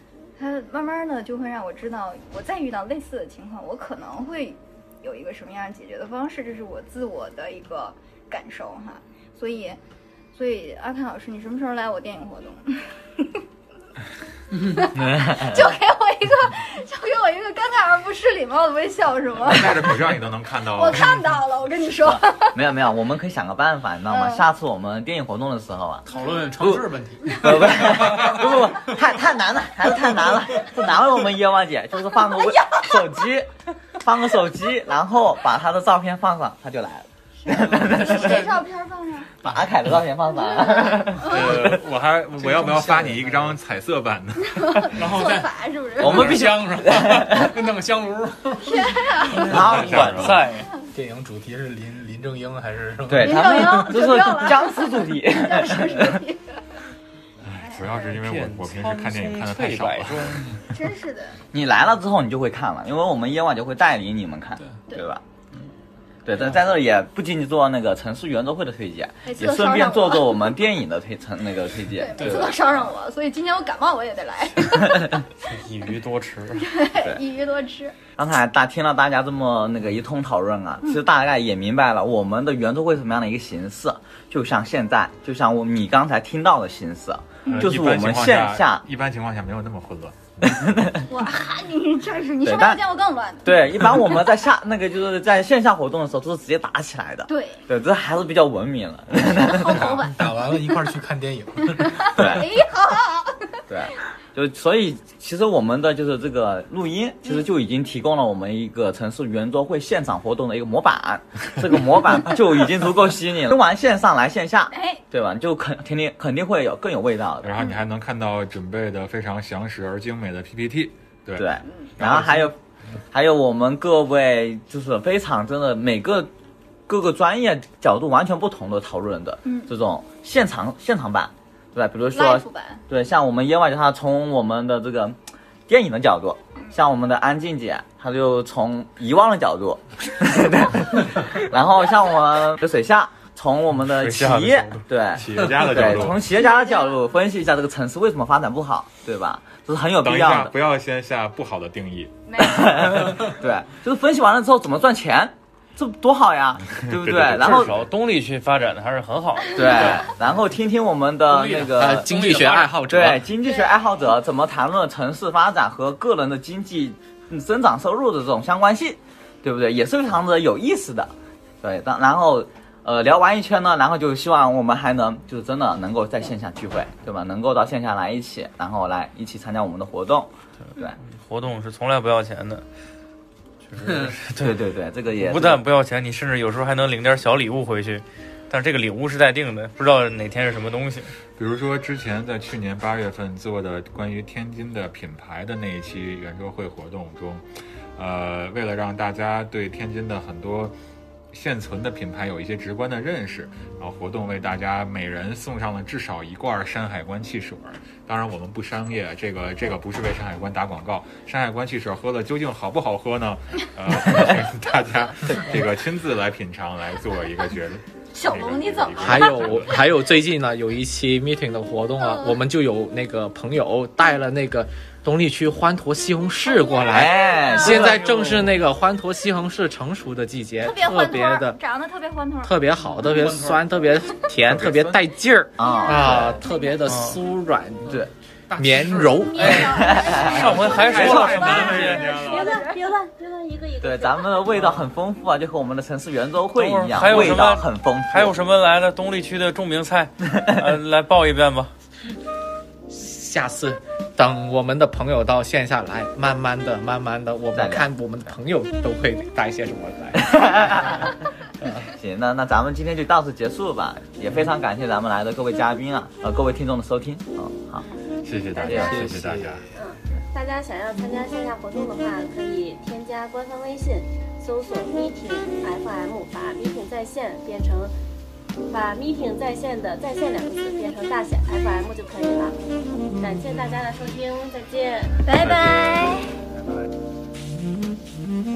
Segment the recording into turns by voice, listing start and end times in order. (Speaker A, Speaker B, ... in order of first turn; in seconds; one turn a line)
Speaker A: 0.4-9.8
Speaker A: 10.3-13.4
Speaker A: 14.6-19.9
Speaker B: 14.9-15.7
Speaker C: 19.4-21.2
Speaker A: 20.7-22.6
Speaker B: 22.0-26.1
Speaker A: 24.1-24.5
Speaker D: 26.1-29.1
Speaker B: 26.6-38.5
Speaker A: 32.4-33.0
Speaker A: 37.4-39.3
Speaker B: 39.4-41.8
Speaker A: 40.5-41.4
Speaker C: 41.2-45.1
Speaker E: 42.4-43.6
Speaker A: 44.4-46.4
Speaker D: 44.9-50.0
Speaker B: 46.0-47.5
Speaker A: 48.6-49.6
Speaker B: 49.3-50.5
Speaker C: 49.5-50.5
Speaker F: 50.0-50.7
Speaker E: 50.9-54.1
Speaker B: 53.1-56.2
Speaker A: 53.2-56.6
Speaker C: 57.4-60.6
Speaker F: 57.9-60.5
Speaker A: 60.7-61.4
Speaker B: 61.5-65.7
Speaker B: 66.2-72.5
Speaker A: 69.2-70.5
Speaker A: 71.9-75.2
Speaker D: 72.2-72.8
Speaker F: 75.4-76.7
Speaker A: 76.5-78.0
Speaker B: 78.2-88.8
Speaker A: 87.4-87.7
Speaker C: 87.5-90.5
Speaker B: 90.4-91.1
Speaker A: 91.0-93.8
Speaker B: 92.4-92.8
Speaker B: 93.4-99.9
Speaker A: 97.3-97.7
Speaker A: 99.3-100.7
Speaker E: 99.5-102.4
Speaker A: 101.7-103.7
Speaker B: 102.1-102.5
Speaker B: 103.7-117.6
Speaker A: 114.7-115.0
Speaker C: 117.4-122.5
Speaker B: 121.3-122.6
Speaker A: 121.6-121.9
Speaker B: 123.1-126.3
Speaker B: 126.9-150.5
Speaker A: 129.4-129.7
Speaker A: 132.1-132.8
Speaker F: 143.9-144.8
Speaker C: 145.1-146.3
Speaker A: 146.3-147.1
Speaker C: 150.0-153.2
Speaker A: 152.3-152.9
Speaker B: 152.4-157.7
Speaker C: 156.8-157.8
Speaker F: 157.3-160.1
Speaker B: 159.5-162.2
Speaker D: 161.3-162.9
Speaker G: 161.8-163.2
Speaker B: 162.9-181.0
Speaker A: 163.4-163.9
Speaker F: 181.0-182.7
Speaker F: 183.7-184.6
Speaker B: 184.3-185.6
Speaker F: 185.2-191.2
Speaker C: 191.3-200.7
Speaker C: 201.3-219.9
Speaker A: 218.1-219.8
Speaker G: 219.0-231.6
Speaker A: 222.0-222.4
Speaker A: 226.4-228.0
Speaker B: 226.9-228.2
Speaker D: 227.5-228.6
Speaker A: 230.6-233.1
Speaker G: 232.4-237.9
Speaker D: 233.0-233.8
Speaker C: 234.4-235.1
Speaker B: 235.6-236.4
Speaker A: 235.6-236.8
Speaker H: 235.6-236.2
Speaker F: 236.8-237.2
Speaker B: 237.8-238.1
Speaker D: 237.8-240.7
Speaker G: 238.6-240.0
Speaker A: 239.1-242.8
Speaker B: 239.7-241.6
Speaker F: 240.2-242.1
Speaker C: 240.3-242.6
Speaker H: 241.8-244.5
Speaker B: 243.8-248.4
Speaker F: 246.6-251.7
Speaker G: 252.9-261.9
Speaker B: 257.5-258.4
Speaker B: 260.1-261.1
Speaker B: 261.9-267.9
Speaker H: 267.8-269.1
Speaker C: 268.2-269.6
Speaker E: 268.7-269.8
Speaker B: 268.7-269.0
Speaker H: 269.7-277.9
Speaker H: 278.7-282.6
Speaker H: 283.2-285.3
Speaker A: 285.2-286.4
Speaker C: 285.4-285.8